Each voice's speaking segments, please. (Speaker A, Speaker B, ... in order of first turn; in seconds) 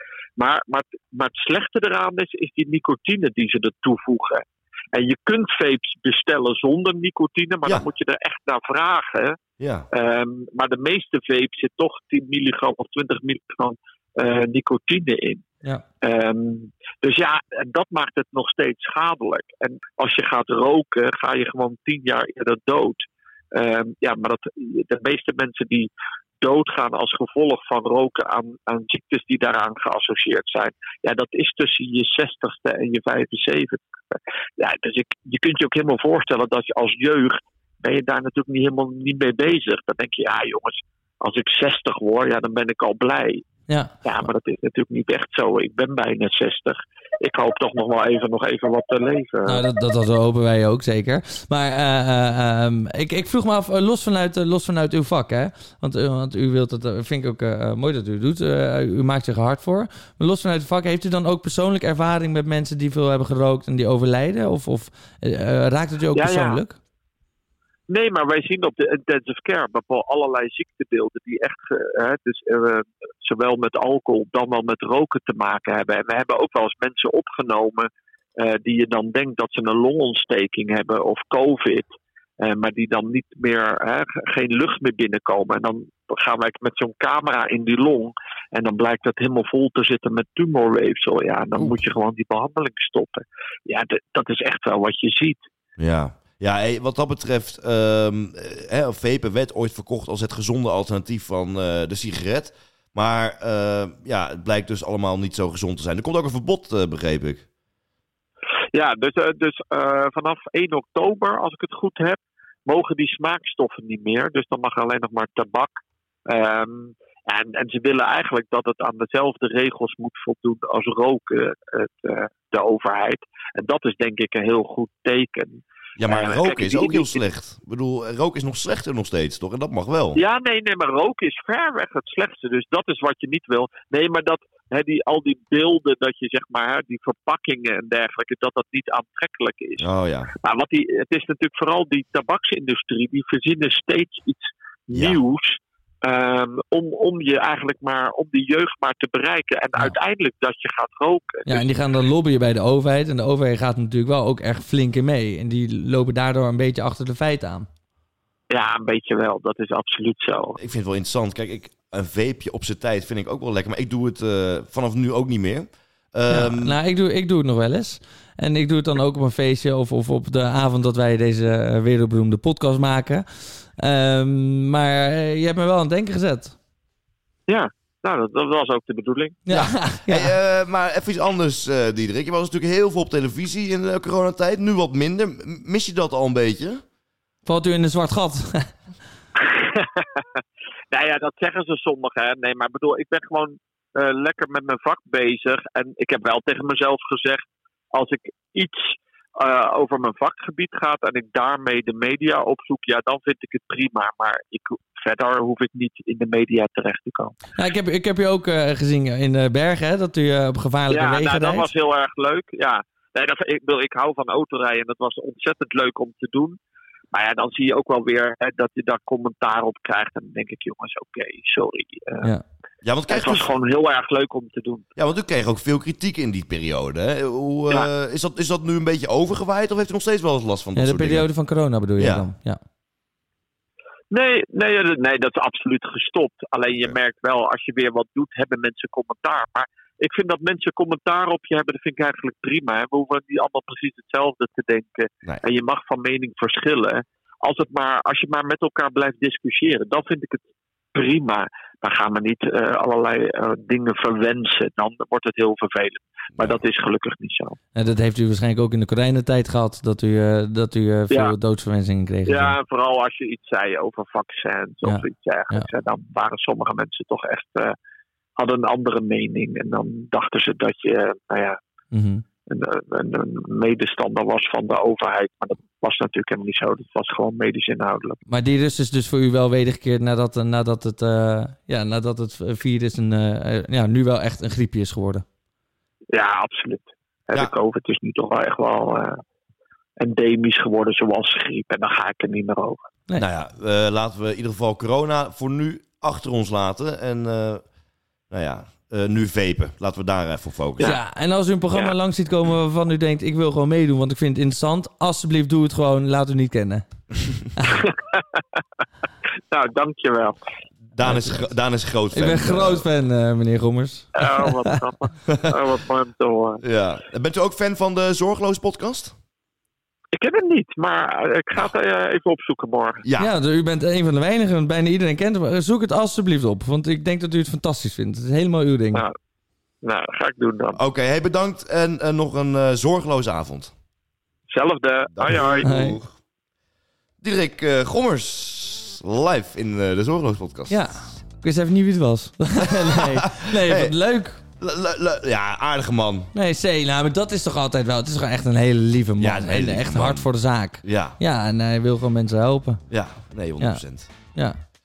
Speaker A: 0.4-9.4, 9.9-15.4, 16.0-43.4, 44.0-49.6, 66.1-66.6, 67.9-81.9, 82.4-95.4, 108.7-115.7, 116.2-127.2, 130.1-139.9, 140.4-151.7, 158.5-160.6, 177.5-179.4, 189.4-190.2, 190.9-198.8, 199.4-207.3, 210.9-216.6, 217.1-222.3, 223.1-224.9, 234.1-250.4, 250.9-257.6, 261.1-261.3, 262.3-267.8, 268.4-271.6, 272.5-278.2, 286.1-289.2, 290.0-292.8, 307.6-308.4, 309.5-310.4, 314.1-316.6, 320.1-323.0, 329.8-330.8, 334.5-335.7
Speaker B: 9.6-9.9, 95.8-107.5, 126.0-130.2, 139.8-140.3, 144.9-145.2, 160.6-166.8, 179.5-186.8, 222.8-223.5, 225.0-231.3, 232.0-232.3, 256.4-256.6, 293.2-297.6, 298.3-300.9, 310.9-312.9, 315.3-315.6, 316.6-319.1, 323.0-323.3, 330.8-333.7, 335.1-336.1, 337.2-340.9, 342.6-343.9, 344.6-346.3, 349.2-350.3, 350.8-351.2, 352.9-354.1
Speaker C: 43.7-43.9, 49.5-66.8, 151.4-157.7, 166.3-173.2, 173.8-176.6, 179.4-180.3, 187.4-188.7, 207.6-211.7, 230.8-232.6, 257.7-262.6, 264.8-265.7, 271.9-272.2, 278.3-285.2, 300.8-306.9, 307.6-307.8, 311.0-311.4, 312.1-314.8, 323.2-329.0, 335.6-336.0, 340.7-344.4, 346.3-352.8, 354.3-354.6